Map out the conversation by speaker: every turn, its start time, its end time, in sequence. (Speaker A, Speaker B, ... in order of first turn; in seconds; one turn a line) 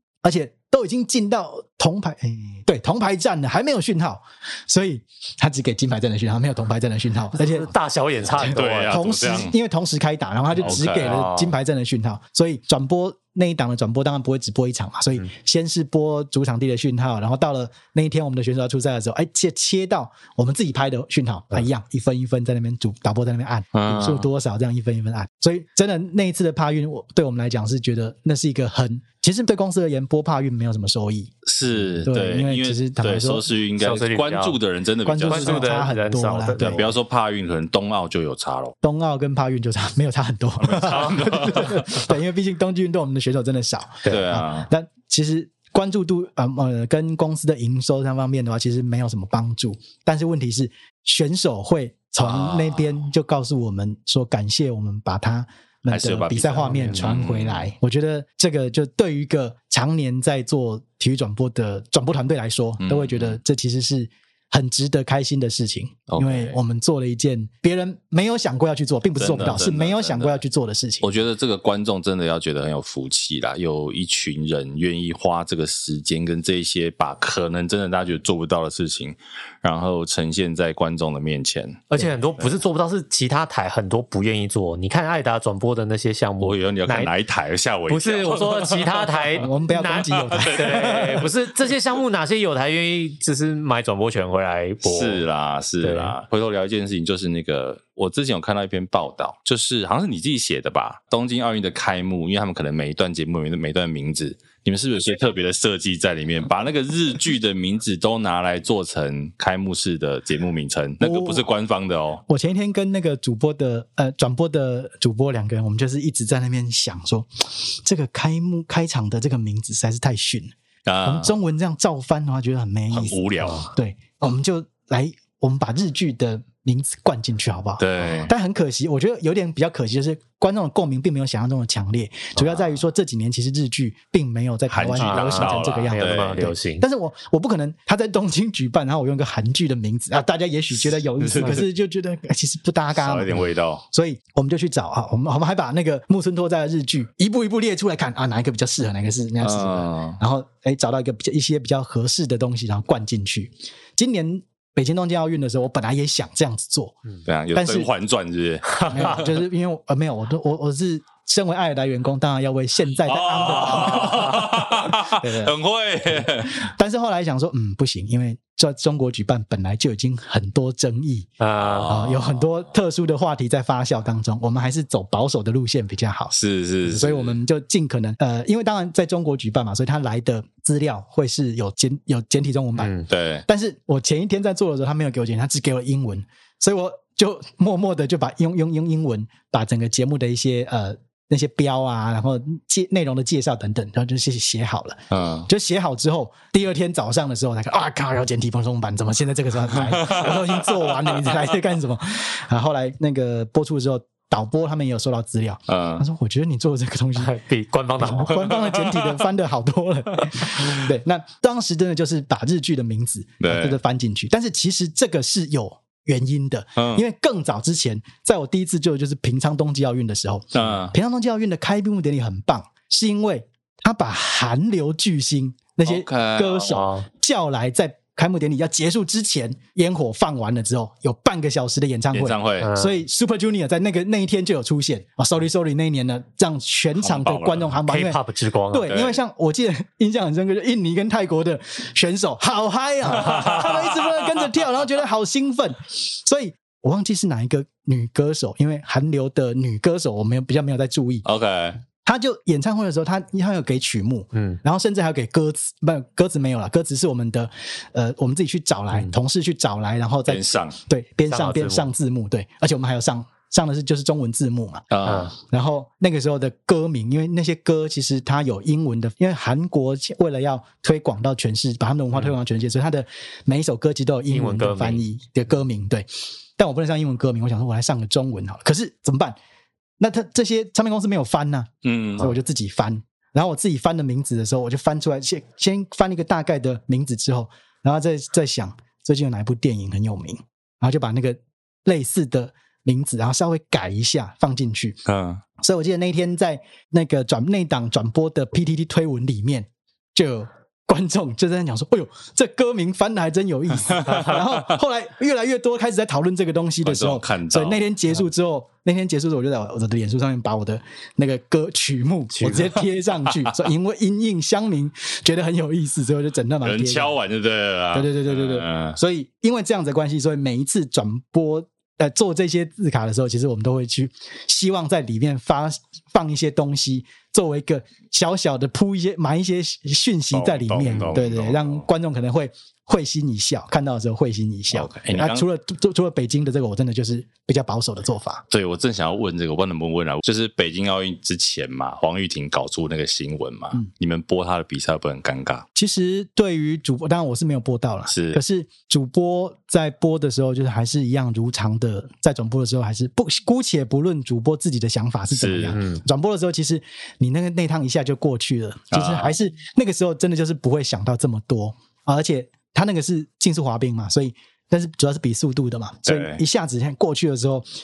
Speaker A: 0.2-7.7
Speaker B: 7.4-9.0
Speaker A: 8.3-31.3
Speaker C: 8.3-9.6
Speaker C: 10.6-11.3
Speaker B: 10.6-11.6
Speaker C: 23.7-24.3
Speaker C: 31.4-35.8
Speaker A: 32.0-33.5
Speaker B: 33.8-34.6
Speaker A: 35.0-36.8
Speaker B: 35.3-36.9
Speaker C: 36.6-38.8
Speaker A: 38.8-71.1
Speaker C: 40.6-41.9
Speaker B: 40.9-41.3
Speaker C: 44.1-44.7
Speaker C: 52.2-53.0
Speaker C: 55.9-57.7
Speaker C: 62.8-63.4
Speaker C: 66.1-66.6
Speaker C: 69.2-70.4
Speaker C: 71.0-81.8
Speaker B: 81.9-87.1
Speaker C: 86.4-89.4
Speaker B: 87.9-95.2
Speaker A: 89.4-91.3
Speaker C: 90.1-91.3
Speaker C: 94.8-112.2
Speaker B: 95.8-96.2
Speaker A: 111.0-111.5
Speaker A: 112.3-120.5
Speaker C: 120.9-121.3
Speaker A: 121.0-157.0
Speaker C: 122.9-123.7
Speaker C: 127.8-128.3
Speaker C: 134.7-136.5
Speaker B: 135.0-136.8
Speaker C: 141.2-141.7
Speaker C: 143.0-143.8
Speaker C: 149.4-150.2
Speaker C: 157.2-159.2
Speaker A: 157.6-157.9
Speaker A: 158.8-165.5
Speaker C: 163.1-166.6
Speaker A: 166.1-171.3
Speaker B: 171.4-172.0
Speaker C: 171.6-172.3
Speaker A: 171.8-207.3
Speaker C: 176.3-177.4
Speaker B: 182.8-183.1
Speaker C: 183.1-183.4
Speaker C: 195.1-195.5
Speaker C: 199.8-200.6
Speaker C: 205.7-206.0
Speaker B: 207.2-208.5
Speaker A: 208.0-238.2
Speaker C: 213.4-213.8
Speaker C: 216.8-217.1
Speaker C: 220.5-220.9
Speaker C: 225.8-226.8
Speaker B: 226.7-227.1
Speaker C: 232.1-232.7
Speaker B: 232.6-233.0
Speaker C: 237.0-237.7
Speaker B: 237.9-238.9
Speaker A: 238.7-251.3
Speaker C: 238.9-239.2
Speaker C: 243.2-244.1
Speaker C: 251.2-251.8
Speaker A: 252.0-279.4
Speaker C: 260.3-260.8
Speaker B: 261.3-261.9
Speaker C: 264.9-265.3
Speaker B: 265.1-265.3
Speaker B: 274.3-275.0
Speaker A: 280.0-295.0
Speaker C: 281.8-282.3
Speaker C: 295.1-295.4
Speaker A: 295.6-317.1
Speaker C: 306.8-307.9
Speaker B: 312.4-312.7
Speaker C: 316.6-319.0
Speaker A: 317.9-338.4
Speaker C: 330.3-331.9
Speaker C: 334.7-335.5
Speaker C: 338.5-345.6
Speaker A: 345.8-367.7
Speaker C: 348.1-348.4
Speaker C: 355.3-355.8
Speaker B: 355.7-356.0
Speaker C: 358.9-359.3
Speaker C: 366.1-366.4